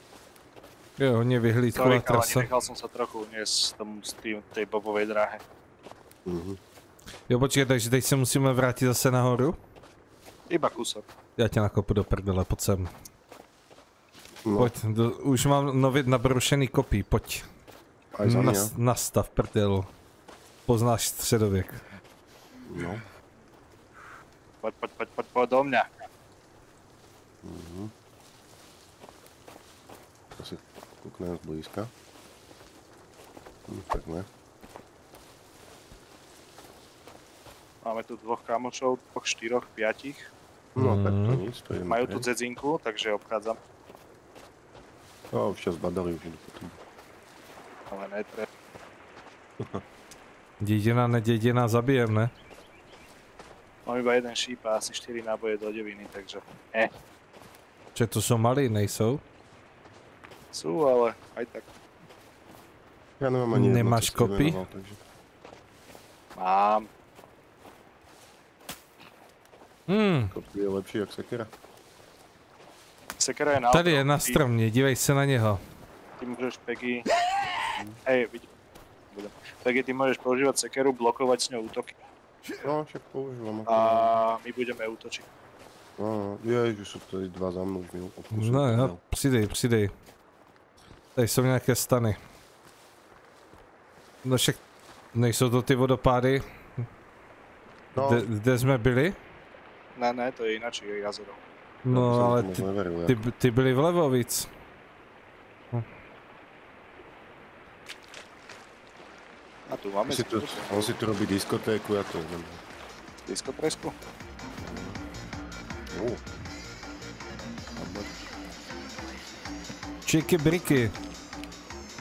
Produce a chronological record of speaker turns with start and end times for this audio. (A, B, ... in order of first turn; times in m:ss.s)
0:01.0-0:02.5 A
0:01.7-0:05.4 B
0:06.2-0:06.6 C
0:07.3-0:09.6 A
0:10.5-0:11.0 B
0:11.4-0:12.9 A
0:14.4-0:14.7 C
0:14.6-0:17.4 A
0:18.2-0:18.7 C
0:18.2-0:19.9 A
0:20.7-0:21.8 A
0:22.6-0:23.0 C
0:24.6-0:26.0 B
0:27.4-0:27.9 C
0:30.4-0:31.9 C
0:33.7-0:34.3 C
0:37.8-0:40.3 B
0:40.7-0:42.3 C
0:40.8-0:41.4 A
0:41.9-0:43.6 B
0:45.3-0:46.8 C
0:47.9-0:48.4 B
0:50.6-0:52.3 A
0:53.8-0:56.9 B
0:57.9-0:59.2 A
1:00.5-1:01.6 B
1:03.2-1:05.0 C
1:03.5-1:04.6 A
1:06.3-1:06.9 B
1:09.9-1:10.3 A
1:10.3-1:11.5 C
1:13.2-1:14.4 B
1:13.7-1:15.6 A
1:16.2-1:17.1 B
1:18.0-1:18.5 B
1:19.1-1:21.9 B
1:22.6-1:24.2 C
1:23.7-1:25.2 B
1:26.0-1:29.0 C
1:28.3-1:29.9 A
1:31.2-1:32.2 A
1:34.2-1:34.6 A
1:35.1-1:36.8 A
1:37.9-1:38.3 C
1:38.0-1:39.2 A
1:40.0-1:41.4 B
1:41.8-1:44.5 A
1:41.9-1:43.2 C
1:49.7-1:50.9 B
1:50.1-1:52.6 C
1:53.3-1:53.9 B
1:54.6-1:55.0 C
1:55.9-1:56.2 C
1:57.8-1:58.1 C
2:00.0-2:00.9 A